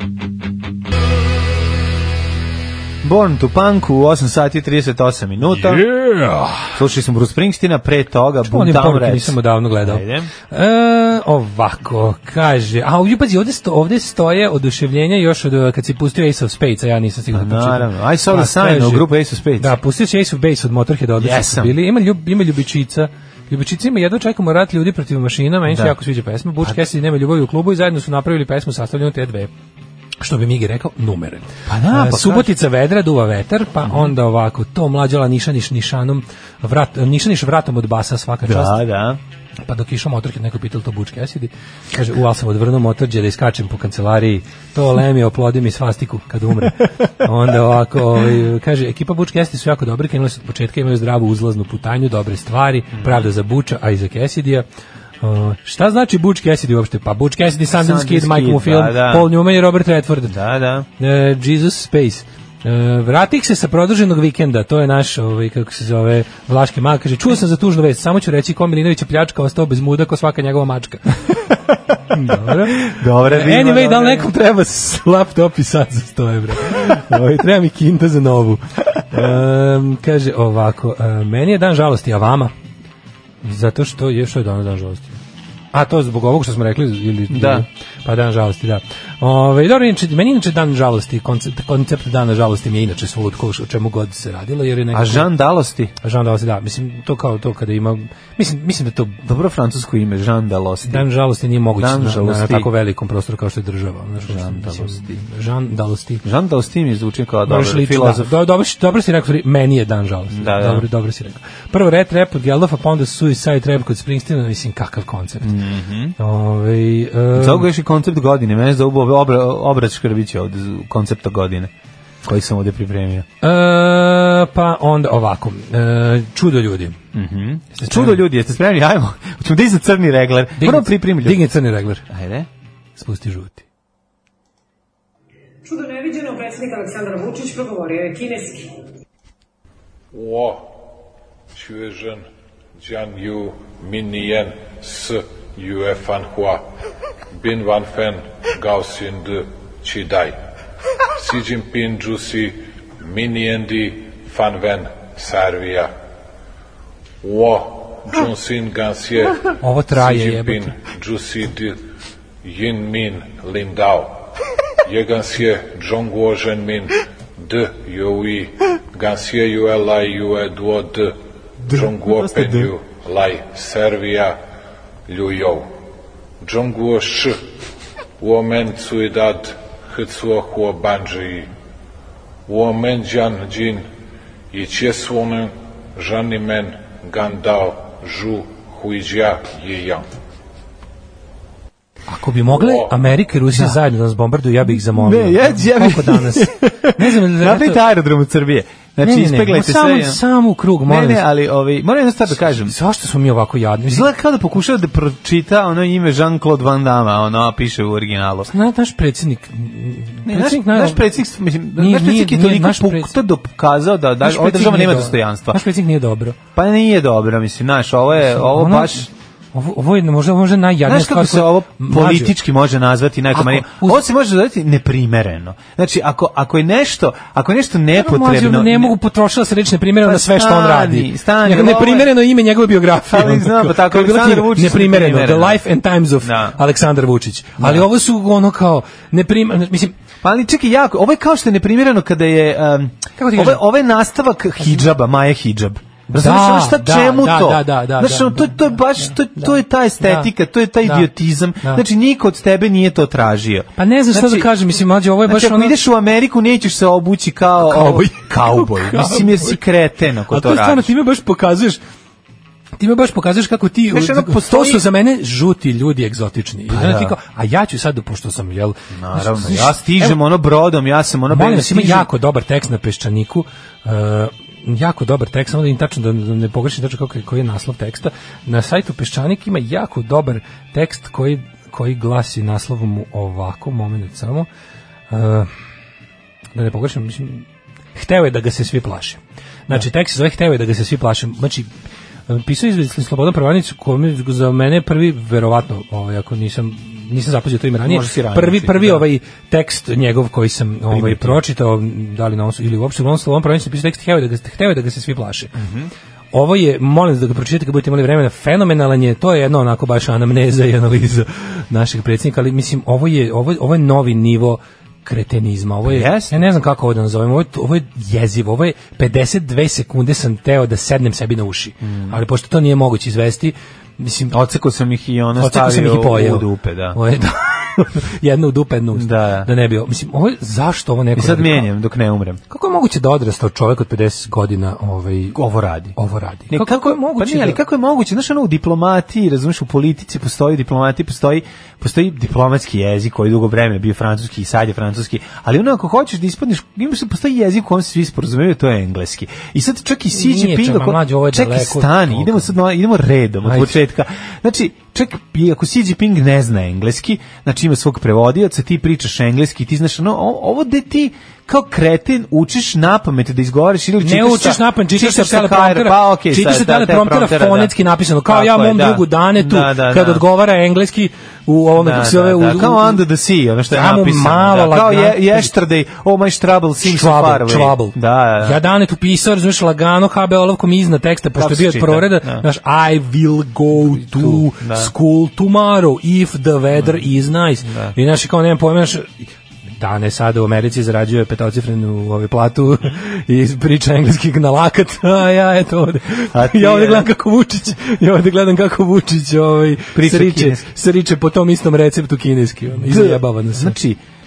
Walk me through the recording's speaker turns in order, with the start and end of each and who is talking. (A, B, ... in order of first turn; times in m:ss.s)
0:03.0-0:05.9 A
0:06.0-0:06.6 B
0:06.7-0:10.3 A
0:08.5-0:19.1 B
0:17.3-0:19.7 A
0:19.6-0:29.5 B
0:21.2-0:21.8 A
0:25.7-0:26.0 A
0:30.2-0:38.8 B
0:31.7-0:32.5 A
0:33.8-0:34.1 A
0:38.5-0:39.2 A
0:39.6-0:54.7 B
0:53.0-0:53.3 A
0:55.2-1:00.4 B
0:57.7-0:59.3 A
1:00.3-1:00.9 A
1:01.0-1:11.1 B
1:12.1-1:22.5 B
1:12.3-1:14.3 A
1:23.4-1:25.2 B
1:25.7-1:35.3 B
1:27.3-1:27.7 A
1:34.9-1:35.9 A
1:36.0-1:39.2 B
1:39.2-1:41.1 A
1:40.9-1:46.2 B
1:41.8-1:42.7 A
1:44.3-1:45.2 A
1:46.2-1:48.3 A
1:47.5-1:55.5 B
1:50.3-1:50.9 A
1:55.4-1:56.2 A
1:56.2-1:57.7 B
1:57.4-2:01.7 A
2:02.2-2:03.3 A
2:03.4-2:07.0 B
2:07.1-2:11.5 A
2:07.8-2:08.2 B
2:10.6-2:12.0 B
2:12.1-2:12.5 A
2:13.0-2:13.6 B
2:15.6-2:18.7 C
2:20.1-2:20.7 D
2:21.5-2:26.7 D
2:27.3-2:30.4 D
2:31.2-2:35.9 D
2:37.2-2:41.8 D
2:39.6-2:40.7 B
2:42.4-2:44.3 D
2:44.8-2:54.4 D
2:51.6-2:52.7 A
2:55.1-2:55.7 D
2:56.4-2:57.4 D
2:58.2-3:01.5 D
3:02.5-3:03.9 D
3:04.5-3:10.1 D
3:12.1-3:17.8 B
3:12.5-3:13.0 D
3:13.5-3:13.8 A
3:14.7-3:20.2 A
3:19.0-3:21.2 B
3:20.9-3:22.7 A
3:22.4-3:24.1 B
3:23.9-3:28.5 A
3:28.5-3:31.1 B
3:30.3-3:35.6 A
3:31.8-3:33.2 B
3:34.2-3:36.4 B
3:36.6-3:39.1 A
3:38.4-3:42.4 B
3:40.8-3:49.0 A
3:43.3-3:44.0 B
3:47.9-3:59.9 B
3:50.0-3:52.1 A
3:53.1-3:55.6 A
3:56.2-3:56.6 A
3:57.6-3:57.9 A
4:00.2-4:14.5 A
4:03.2-4:03.6 B
4:06.1-4:10.3 B
4:10.8-4:11.1 B
4:13.8-4:15.8 B
4:15.3-4:20.9 A
4:17.6-4:19.6 B
4:20.3-4:21.8 B
4:22.8-4:30.2 B
4:23.9-4:24.8 A
4:26.7-4:27.2 A
4:28.9-4:32.1 A
4:31.3-4:44.5 B
4:45.1-4:45.5 B
4:46.6-4:51.7 B
4:52.3-5:05.6 B
4:57.8-4:59.1 A
5:00.9-5:01.4 A
5:05.6-5:05.9 A
5:06.3-5:24.4 B
5:15.9-5:16.4 A
5:21.8-5:22.2 A
5:24.3-5:27.0 A
5:25.4-5:31.7 B
5:28.9-5:29.5 A
5:31.2-5:32.4 A
5:32.5-5:35.4 B
5:35.4-5:36.0 A
5:36.0-5:37.6 B
5:36.5-6:07.8 A
5:50.1-5:52.5 B
5:53.4-5:53.8 B
6:04.0-6:13.0 B
6:08.3-6:10.2 A
6:11.8-6:18.6 A
6:13.7-6:15.5 B
6:16.8-6:29.2 B
6:21.4-6:22.5 A
6:23.8-6:24.9 A
6:27.6-6:28.0 A
6:29.8-6:43.8 B
6:36.3-6:37.1 A
6:40.0-6:40.7 A
6:42.8-6:44.0 A